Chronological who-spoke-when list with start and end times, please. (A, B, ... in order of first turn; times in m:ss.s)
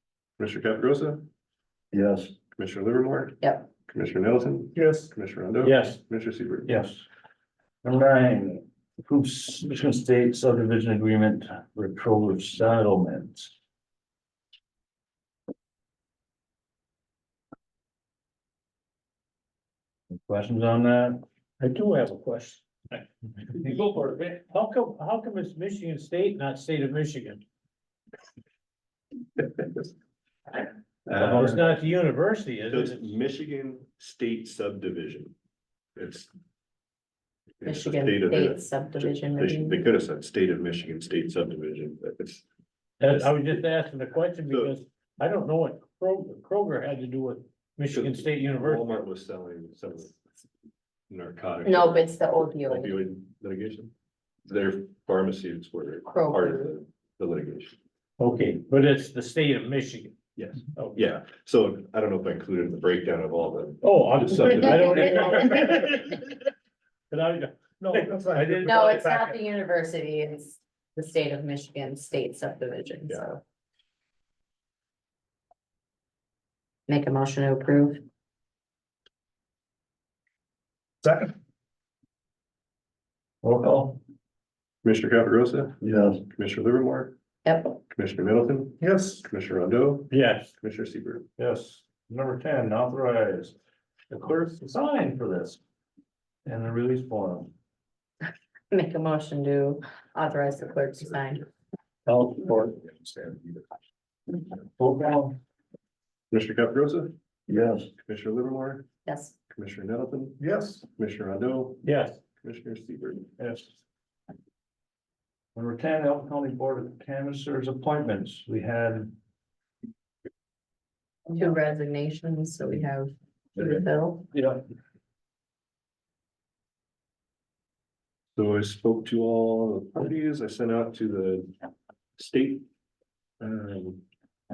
0:00.4-0:01.3 A
0:02.6-0:06.7 A
0:03.4-0:03.7 B
0:04.8-0:05.1 C
0:05.6-0:06.0 D
0:06.7-0:07.0 E
0:07.8-0:13.5 E
0:20.1-0:21.2 E
0:21.6-0:22.6 D
0:23.4-0:24.4 E
0:24.5-0:27.4 D
0:31.1-0:31.6 A
0:31.1-0:33.1 D
0:32.7-0:35.4 A
0:36.0-0:36.3 A
0:37.6-0:42.4 A
0:37.6-0:39.9 B
0:43.0-0:49.0 D
0:43.1-0:43.4 A
0:44.5-0:44.7 A
0:47.9-0:50.2 A
0:51.1-0:53.9 A
0:51.6-0:53.0 B
0:54.5-0:57.8 A
0:56.0-0:56.7 B
0:58.2-1:00.2 D
1:00.4-1:04.8 A
1:00.7-1:01.0 D
1:03.8-1:06.4 D
1:07.1-1:09.4 D
1:07.9-1:08.7 C
1:08.7-1:13.4 B
1:16.9-1:18.0 B
1:21.0-1:21.3 C
1:23.4-1:24.0 E
1:24.8-1:27.2 A
1:27.4-1:27.8 B
1:27.8-1:31.3 A
1:28.8-1:29.2 C
1:30.1-1:30.5 D
1:31.4-1:33.6 E
1:34.1-1:35.6 E
1:36.4-1:37.5 E
1:38.7-1:41.5 B
1:42.1-1:42.8 D
1:44.8-1:45.4 E
1:46.3-1:47.2 A
1:48.0-1:48.9 A
1:49.1-1:49.4 B
1:49.5-1:51.9 A
1:50.4-1:50.8 C
1:51.8-1:52.2 D
1:52.4-1:53.3 A
1:53.4-1:53.7 E
1:55.5-1:59.1 E
2:01.3-2:04.3 B
2:04.3-2:04.6 E
2:08.4-2:11.5 A
2:12.2-2:12.7 A
2:13.4-2:14.0 A